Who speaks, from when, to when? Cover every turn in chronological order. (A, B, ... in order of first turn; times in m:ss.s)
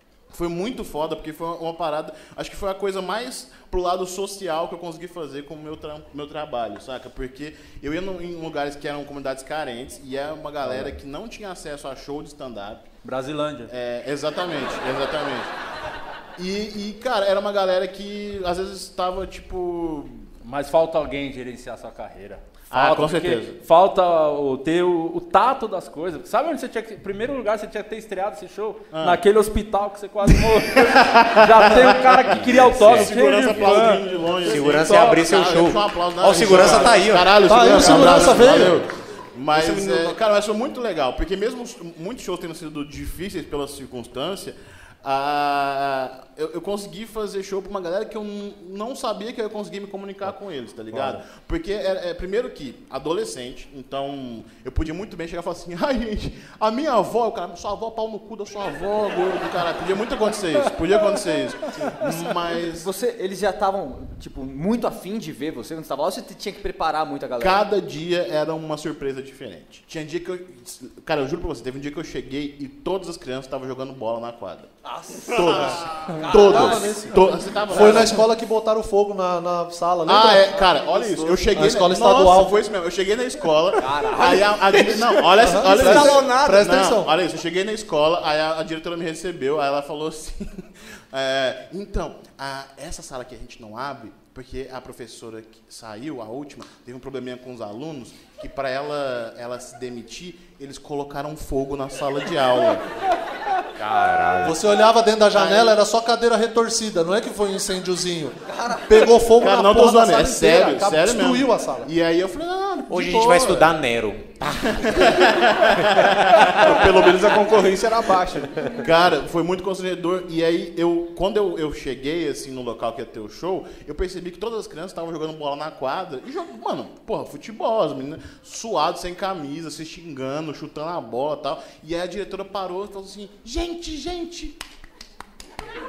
0:00.3-0:12.8 A
0:13.0-0:13.7 B
0:13.7-0:15.5 A
0:16.4-0:20.2 A
0:20.4-0:34.0 B
0:22.7-0:23.6 A
0:28.9-0:29.2 A
0:30.7-1:02.9 A
0:32.6-0:33.9 C
0:34.4-0:37.3 C
0:37.5-0:38.8 D
0:39.5-0:40.2 E
0:50.9-0:51.2 B
1:02.7-1:07.6 F
1:07.4-1:14.7 A
1:14.8-1:17.1 F
1:15.3-1:18.2 A
1:16.3-1:20.5 D
1:20.0-1:42.8 A
1:20.7-1:21.4 E
1:21.5-1:22.7 D
1:23.8-1:26.4 F
1:25.4-1:27.1 D
1:43.8-1:44.6 C
1:44.4-1:51.9 D
1:45.4-1:45.7 A
1:48.5-1:49.0 F
1:49.4-1:53.7 A
1:52.9-1:56.1 C
1:54.7-1:56.8 A
1:56.5-1:58.7 E
1:58.8-2:14.6 A